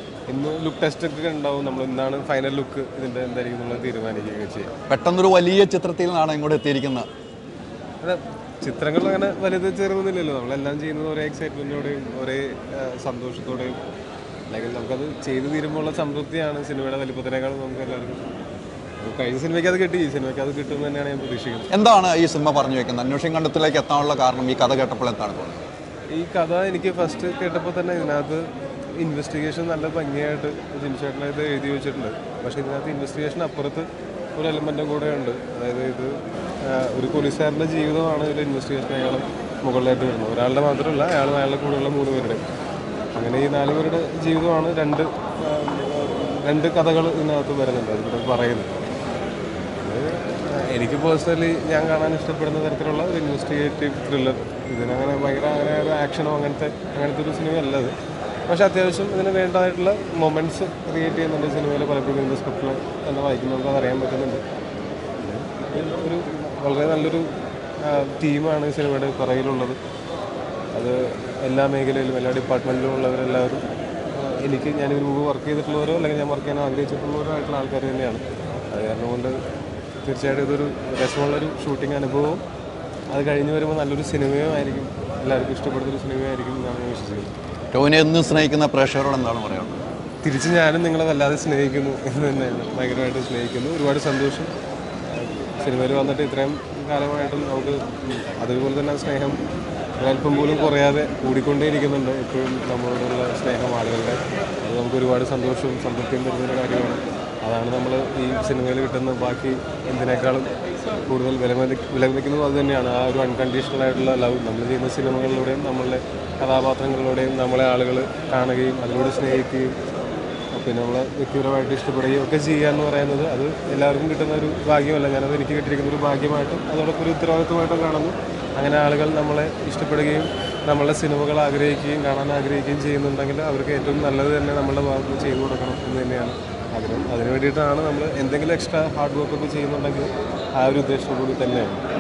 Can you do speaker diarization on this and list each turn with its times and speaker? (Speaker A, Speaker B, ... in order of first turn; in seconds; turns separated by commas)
Speaker A: 0.3-4.7, Speaker B: 4.9-7.1, Speaker A: 8.0-13.8, Speaker A: 14.5-18.4, Speaker A: 19.0-21.7, Speaker B: 21.7-25.6, Speaker A: 26.1-42.4, Speaker A: 43.1-48.8, Speaker A: 49.8-58.0, Speaker A: 58.5-64.4, Speaker A: 65.2-69.8, Speaker A: 70.7-79.4, Speaker A: 80.0-82.4, Speaker A: 83.1-87.3, Speaker B: 87.7-89.8, Speaker A: 90.2-94.5, Speaker A: 95.1-99.4, Speaker A: 100.0-119.8, Speaker A: 120.5-141.8